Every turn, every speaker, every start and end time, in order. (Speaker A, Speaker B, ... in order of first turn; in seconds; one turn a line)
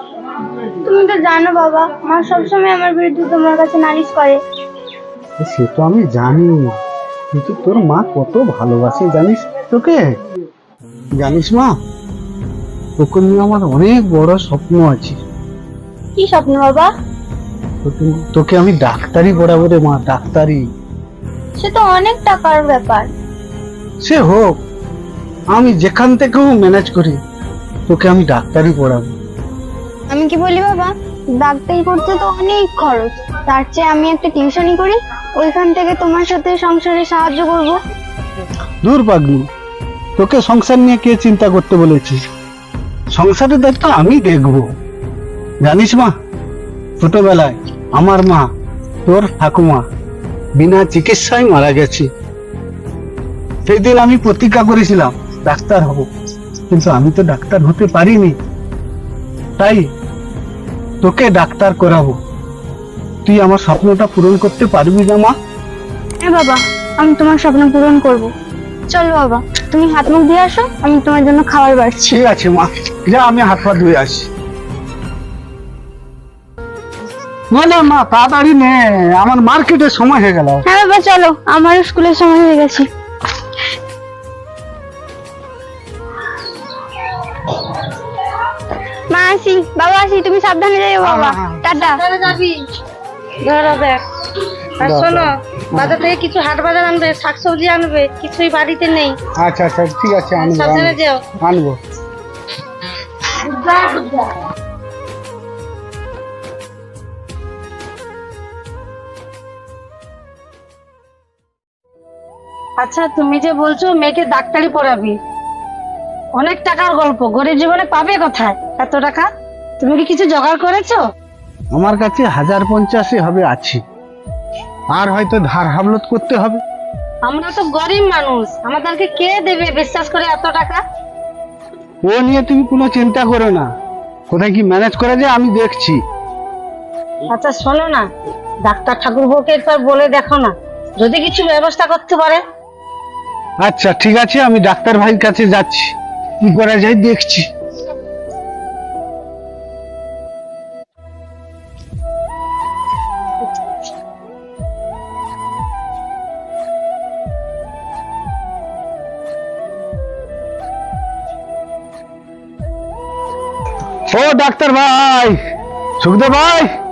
Speaker A: 0.8-4.4
Speaker B: 5.4-6.8
Speaker B: 7.3-10.2
Speaker B: 11.2-11.8
Speaker B: 13.0-15.2
Speaker A: 16.2-16.9
Speaker B: 17.9-20.6
Speaker A: 21.6-23.1
Speaker B: 24.0-24.6
Speaker B: 25.5-27.2
Speaker B: 27.9-29.1
Speaker A: 30.1-37.8
Speaker B: 38.8-39.5
Speaker B: 40.2-42.2
Speaker B: 43.1-44.6
Speaker B: 45.6-46.1
Speaker B: 47.0-48.5
Speaker B: 49.1-49.8
Speaker B: 50.6-52.1
Speaker B: 53.7-56.1
Speaker B: 56.7-58.4
Speaker B: 59.6-59.9
Speaker B: 61.0-62.2
Speaker B: 63.3-65.3
Speaker A: 66.2-68.3
Speaker A: 68.9-72.2
Speaker B: 72.1-74.3
Speaker B: 77.5-80.6
Speaker A: 80.7-82.9
Speaker A: 89.1-92.0
Speaker B: 91.0-91.7
Speaker C: 91.7-92.5
Speaker C: 93.4-94.0
Speaker C: 94.8-99.2
Speaker B: 94.8-95.9
Speaker B: 99.4-101.8
Speaker C: 100.4-101.2
Speaker C: 103.4-104.3
Speaker C: 112.8-115.2
Speaker C: 116.4-119.3
Speaker C: 119.8-121.0
Speaker B: 121.7-123.8
Speaker B: 125.0-126.5
Speaker C: 127.3-130.8
Speaker B: 132.1-133.7
Speaker B: 134.3-136.0
Speaker C: 137.3-138.1
Speaker C: 138.7-142.4
Speaker B: 143.6-147.5
Speaker B: 164.1-165.4
Speaker B: 166.0-166.7